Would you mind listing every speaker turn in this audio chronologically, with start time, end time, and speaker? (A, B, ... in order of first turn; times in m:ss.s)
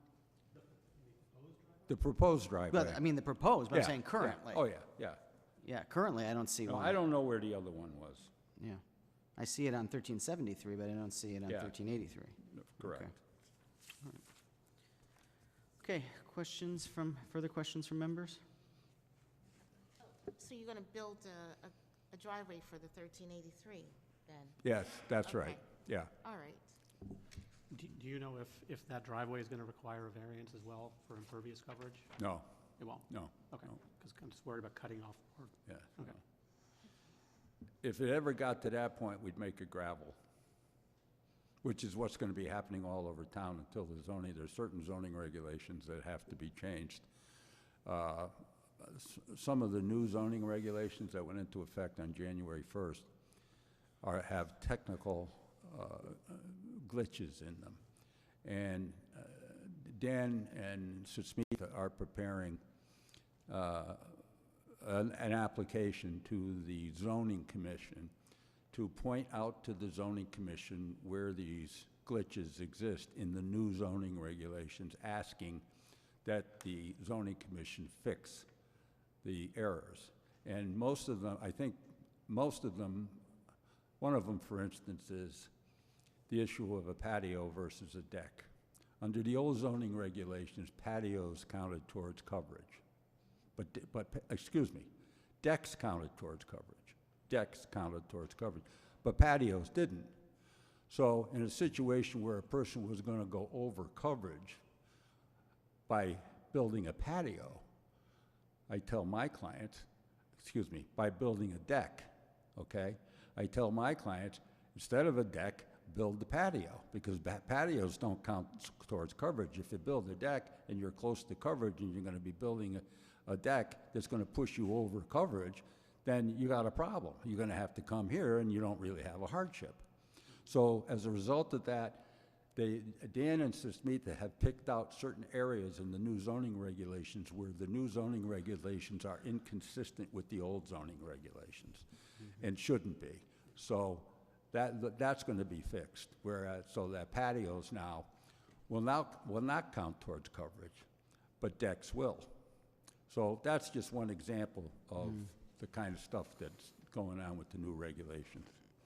0:00.5-0:01.9 A
0:01.9-0:03.0 B
0:02.7-0:04.6 C
0:03.7-0:05.2 B
0:05.6-0:07.0 C
0:06.6-0:08.3 B
0:09.4-0:13.1 C
0:11.5-0:11.7 B
0:12.5-0:13.2 B
0:15.8-0:18.4 C
0:20.0-0:24.6 D
0:24.6-0:26.1 B
0:25.2-0:25.6 D
0:26.2-0:26.6 D
0:27.7-0:32.1 A
0:32.2-0:32.5 B
0:32.8-0:36.2 A
0:33.1-0:33.7 B
0:35.7-0:36.1 B
0:37.8-0:40.2 B
0:41.6-0:47.0 B
0:47.8-0:53.1 B
0:54.0-0:57.8 B
0:58.4-1:02.6 B
1:03.5-1:04.2 B
1:04.8-1:08.1 B
1:08.7-1:15.6 B
1:16.2-1:18.5 B
1:19.2-1:23.2 B
1:24.0-1:25.5 B
1:26.3-1:28.5 B
1:29.0-1:32.8 B
1:33.6-1:34.9 B
1:35.4-1:40.1 B
1:40.9-1:44.6 B
1:45.9-1:47.6 B
1:48.7-1:49.9 B
1:50.4-2:09.8 B
2:10.4-2:28.1 B
2:28.7-2:30.8 B
2:31.4-2:32.3 B
2:33.1-2:38.5 B